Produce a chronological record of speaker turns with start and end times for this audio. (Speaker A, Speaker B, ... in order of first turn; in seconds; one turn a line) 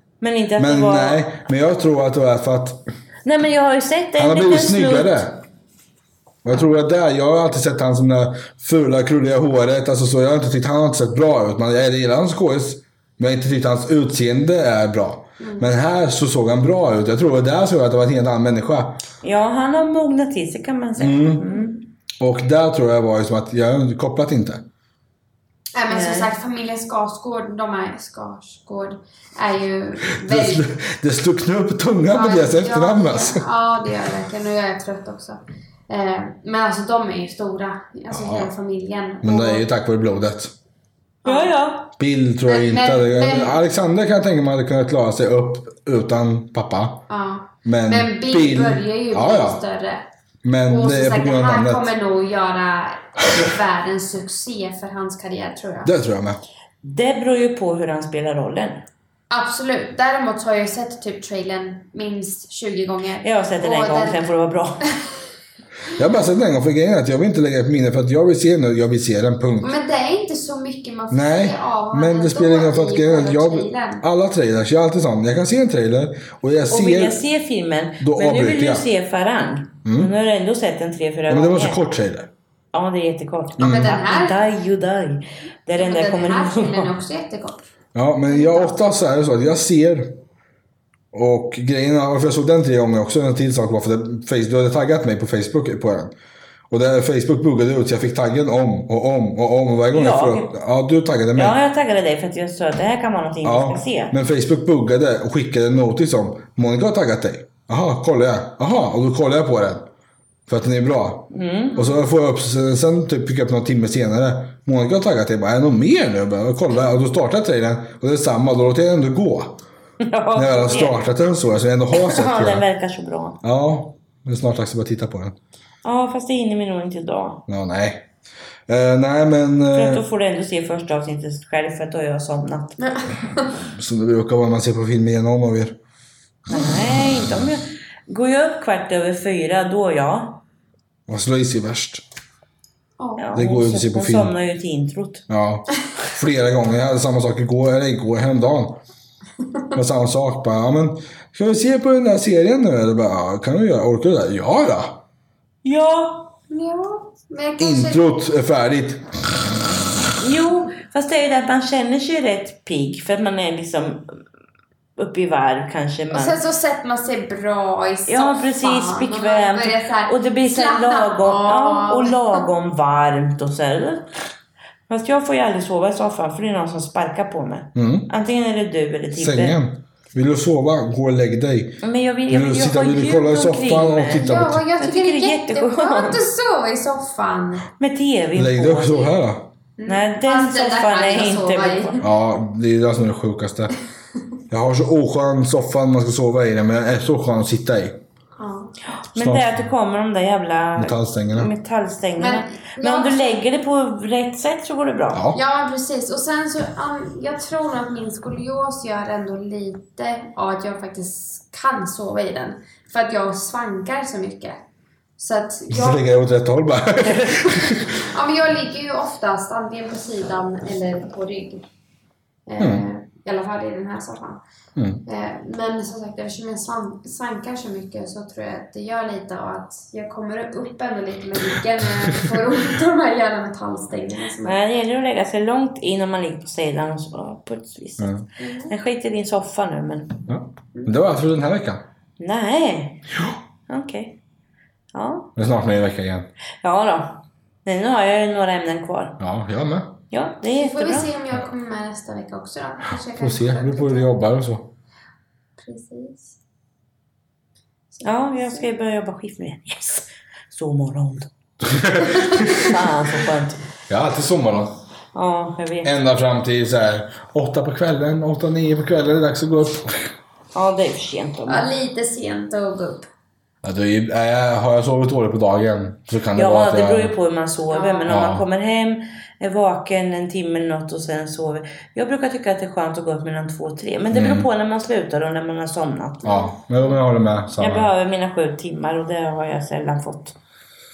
Speaker A: 0.2-1.3
Speaker B: 0.6-2.8
Speaker A: 3.2-5.3
Speaker B: 4.2-5.4
Speaker B: 6.4-19.0
Speaker C: 15.4-15.7
Speaker A: 19.2-21.8
Speaker B: 21.0-21.4
Speaker B: 22.2-24.7
Speaker C: 25.8-30.7
Speaker A: 25.9-26.3
Speaker B: 30.1-33.4
Speaker C: 32.1-39.6
Speaker B: 38.1-38.5
Speaker B: 39.2-40.5
Speaker C: 41.2-41.5
Speaker A: 41.2-41.9
Speaker B: 42.0-47.0
Speaker C: 42.5-43.6
Speaker C: 47.1-50.0
Speaker B: 47.6-49.6
Speaker B: 50.4-51.9
Speaker C: 50.7-55.9
Speaker B: 55.8-56.4
Speaker A: 56.8-58.8
Speaker C: 59.3-64.2
Speaker A: 63.2-64.9
Speaker B: 66.0-69.7
Speaker C: 69.6-74.0
Speaker B: 71.1-77.2
Speaker A: 76.7-81.8
Speaker B: 78.0-78.9
Speaker B: 79.8-80.1
Speaker B: 81.3-82.3
Speaker A: 82.7-86.9
Speaker B: 83.6-83.9
Speaker C: 83.6-84.3
Speaker C: 85.8-87.7
Speaker B: 88.0-90.1
Speaker C: 88.3-88.8
Speaker B: 91.1-96.1
Speaker B: 96.7-101.6
Speaker A: 99.9-100.5
Speaker A: 101.4-104.1
Speaker B: 103.4-109.9
Speaker B: 110.5-119.6
Speaker A: 111.3-111.9
Speaker A: 120.0-121.0
Speaker B: 120.3-122.6
Speaker A: 121.9-123.4
Speaker B: 123.4-125.4
Speaker A: 125.8-127.4
Speaker B: 127.5-128.1
Speaker B: 128.7-130.0
Speaker A: 129.7-132.8
Speaker C: 132.8-133.6
Speaker B: 133.6-135.8
Speaker A: 136.5-140.4
Speaker B: 141.1-142.1
Speaker C: 143.0-143.3
Speaker A: 143.2-145.2
Speaker B: 143.4-144.3
Speaker B: 145.3-148.8
Speaker B: 149.7-155.0
Speaker A: 155.7-156.3
Speaker C: 156.5-158.0
Speaker B: 157.6-159.6
Speaker A: 160.2-164.1
Speaker A: 165.0-166.4
Speaker C: 166.1-172.4
Speaker A: 168.1-174.1
Speaker A: 174.9-179.6
Speaker B: 177.8-178.1
Speaker B: 179.1-184.6
Speaker A: 181.8-186.2
Speaker C: 184.1-187.7
Speaker A: 187.8-189.2
Speaker B: 188.3-189.5
Speaker C: 189.8-192.1
Speaker A: 189.9-192.0
Speaker B: 192.0-193.7
Speaker B: 194.5-198.0
Speaker C: 198.4-198.7
Speaker A: 198.9-205.2
Speaker B: 199.2-199.6
Speaker B: 200.8-201.5
Speaker C: 202.2-203.4
Speaker B: 205.1-205.4
Speaker C: 205.3-214.6
Speaker C: 215.2-216.1
Speaker B: 215.7-218.0
Speaker C: 217.5-221.6
Speaker C: 222.5-224.4
Speaker B: 222.6-222.8
Speaker B: 224.8-225.0
Speaker C: 225.1-234.6
Speaker A: 234.4-238.2
Speaker B: 238.0-238.2
Speaker C: 238.4-238.7
Speaker A: 238.7-240.2
Speaker B: 240.3-241.8
Speaker A: 242.2-243.0
Speaker A: 243.7-244.2
Speaker A: 244.9-245.3
Speaker B: 245.4-246.3
Speaker A: 246.6-249.2
Speaker B: 249.2-250.0
Speaker A: 250.1-251.1
Speaker C: 250.6-254.2
Speaker B: 253.2-254.7
Speaker C: 255.6-256.4
Speaker C: 258.0-258.7
Speaker A: 258.0-261.3
Speaker B: 261.6-262.8
Speaker C: 262.1-262.6
Speaker A: 262.2-263.6
Speaker B: 263.9-264.8
Speaker A: 265.1-265.9
Speaker B: 265.8-270.1
Speaker A: 270.5-271.7
Speaker C: 271.5-273.1
Speaker B: 273.6-277.1
Speaker A: 276.4-286.4
Speaker C: 277.7-278.2
Speaker B: 278.1-278.4
Speaker B: 284.1-284.5
Speaker C: 286.2-286.5
Speaker B: 286.2-287.9
Speaker A: 287.6-290.4